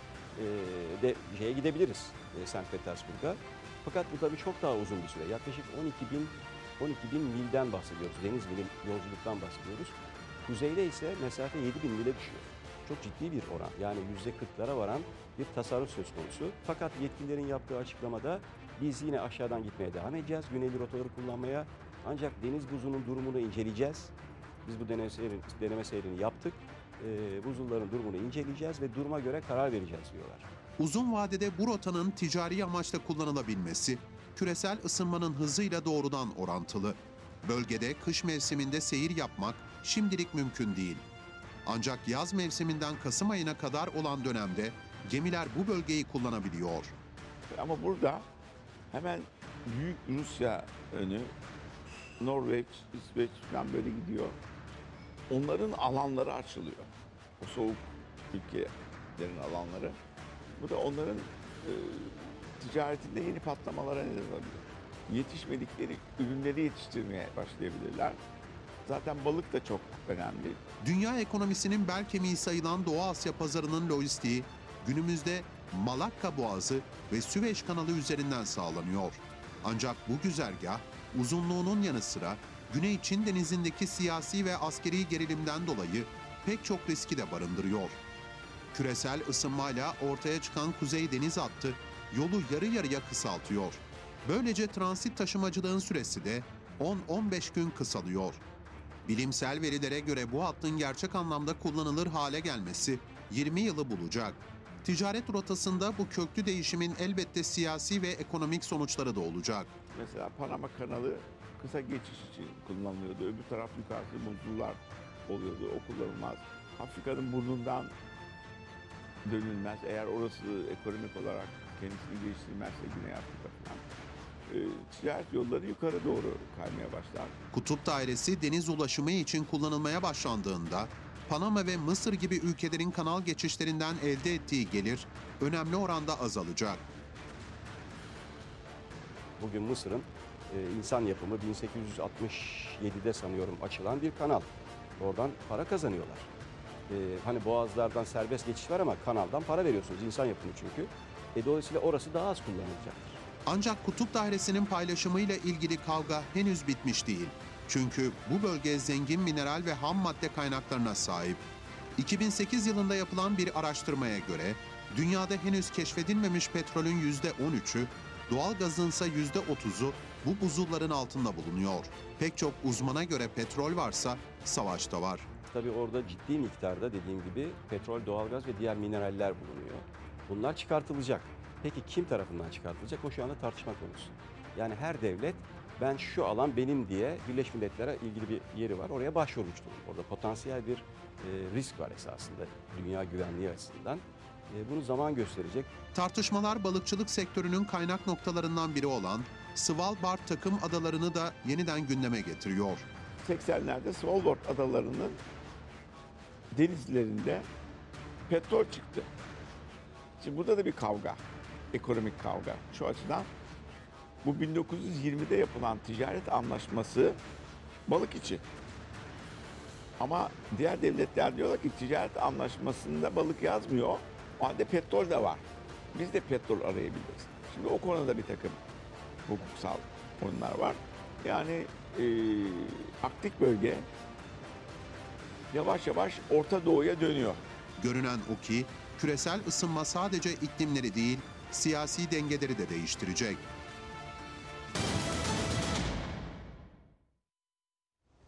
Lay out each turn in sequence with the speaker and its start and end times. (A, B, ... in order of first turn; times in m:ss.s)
0:00.4-0:24.1 A
0:24.6-0:30.5 A
0:30.8-0:41.0 B
0:41.6-0:46.9 B
0:47.5-0:48.2 C
0:48.9-0:51.3 C
0:52.2-0:54.4 C
0:55.3-1:00.0 C
1:00.6-1:08.2 C
1:08.8-1:10.6 C
1:10.8-1:28.0 B
1:28.7-1:38.4 B
1:39.0-1:49.7 B
1:49.9-1:57.9 C
1:59.2-2:03.8 C
2:04.5-2:07.3 C
2:07.5-2:16.8 B
2:19.4-2:26.3 A
2:26.9-2:33.2 A
2:33.4-2:41.4 B
2:42.0-2:55.3 B
2:55.5-3:15.7 A
3:15.9-3:22.8 B
3:23.2-3:25.2 C
3:26.5-3:27.4 C
3:28.3-3:29.1 C
3:30.2-3:33.3 C
3:34.2-3:37.2 C
3:37.9-3:38.4 C
3:40.0-3:48.6 C
3:49.2-3:53.9 C
3:55.5-3:57.4 C
3:57.8-4:03.4 B